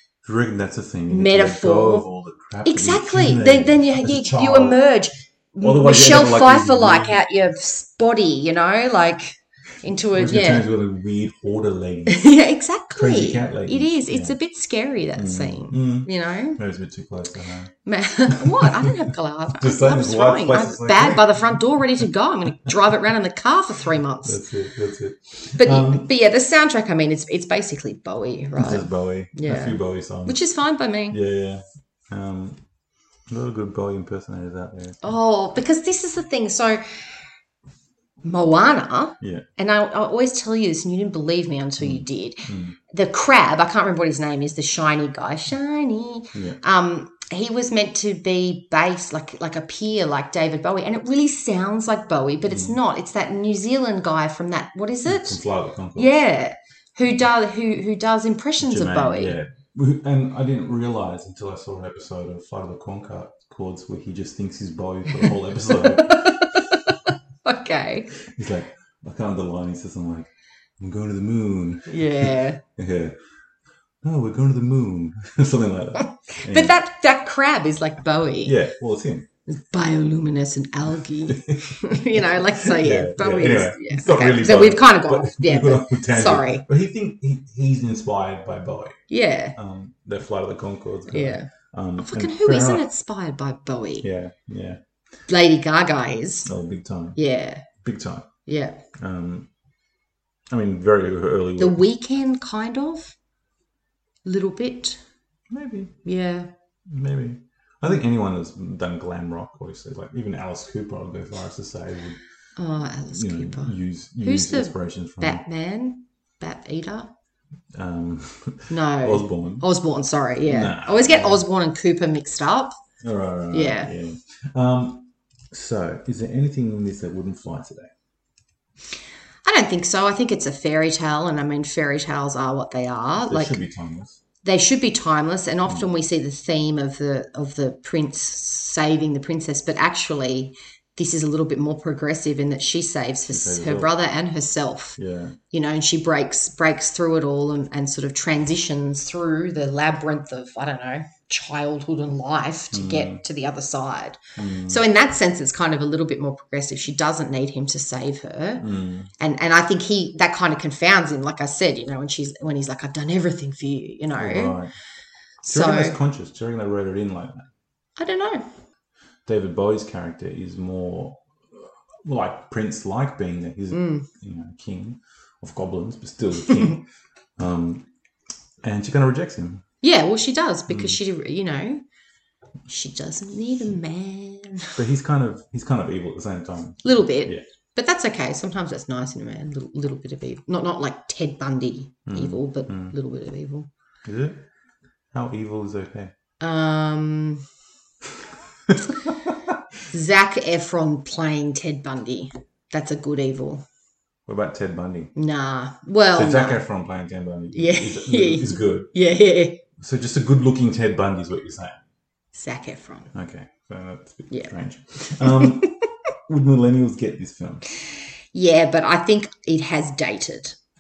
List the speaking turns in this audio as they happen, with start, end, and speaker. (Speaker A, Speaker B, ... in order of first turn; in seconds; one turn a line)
Speaker A: 0.2-4.8
Speaker B: 1.1-2.1
Speaker B: 2.6-10.7
Speaker A: 5.6-7.2
Speaker A: 10.1-12.3
Speaker B: 12.1-16.6
Speaker A: 12.9-14.4
Speaker A: 15.2-17.7
Speaker B: 17.9-24.4
Speaker A: 18.3-19.0
Speaker A: 19.5-22.1
Speaker A: 24.2-26.1
Speaker B: 25.6-31.2
Speaker A: 28.6-30.4
Speaker A: 31.1-32.6
Speaker A: 33.3-35.2
Speaker B: 35.0-36.8
Speaker B: 38.2-55.4
Speaker A: 39.2-39.5
Speaker A: 41.8-42.8
Speaker A: 46.3-46.6
Speaker A: 52.5-52.8
Speaker A: 55.1-56.2
Speaker B: 56.0-59.4
Speaker A: 58.6-66.5
Speaker B: 65.2-68.1
Speaker A: 68.2-73.2
Speaker B: 71.9-72.6
Speaker A: 74.0-76.8
Speaker B: 76.3-78.6
Speaker A: 78.4-79.3
Speaker B: 79.5-86.7
Speaker A: 81.3-89.0
Speaker B: 89.1-89.6
Speaker A: 89.6-92.9
Speaker B: 91.1-94.1
Speaker A: 94.0-94.8
Speaker B: 95.3-96.5
Speaker A: 96.5-97.2
Speaker B: 97.2-97.7
Speaker A: 97.7-98.3
Speaker B: 98.5-98.8
Speaker A: 99.0-99.5
Speaker A: 100.5-101.8
Speaker B: 101.6-103.2
Speaker B: 104.2-105.0
Speaker A: 105.5-106.0
Speaker B: 106.0-106.5
Speaker A: 106.9-112.2
Speaker B: 112.6-117.1
Speaker A: 113.1-115.4
Speaker A: 117.7-119.7
Speaker B: 118.7-122.8
Speaker A: 120.4-121.5
Speaker A: 123.0-127.9
Speaker B: 123.5-123.9
Speaker B: 129.4-133.6
Speaker A: 133.2-134.2
Speaker B: 134.4-145.0
Speaker A: 143.3-143.9
Speaker A: 145.0-145.4
Speaker B: 145.5-158.7
Speaker A: 152.7-153.2
Speaker A: 154.4-154.8
Speaker A: 158.6-159.1
Speaker B: 159.2-164.6
Speaker A: 164.1-164.7
Speaker B: 165.4-166.0
Speaker A: 165.4-167.5
Speaker B: 168.0-168.5
Speaker A: 169.3-176.8
Speaker B: 173.7-174.1
Speaker A: 177.4-177.9
Speaker A: 178.6-179.6
Speaker B: 179.8-181.8
Speaker A: 180.7-181.0
Speaker B: 182.7-184.8
Speaker A: 184.8-187.4
Speaker B: 186.8-193.7
Speaker A: 192.1-193.0
Speaker A: 194.1-194.4
Speaker A: 195.1-196.1
Speaker B: 196.4-197.4
Speaker A: 198.7-199.6
Speaker B: 199.9-203.7
Speaker A: 204.3-205.1
Speaker B: 205.2-206.6
Speaker A: 206.1-208.9
Speaker B: 207.5-209.6
Speaker A: 209.8-211.8
Speaker B: 212.3-213.1
Speaker A: 213.1-217.7
Speaker B: 214.3-215.8
Speaker B: 218.3-220.6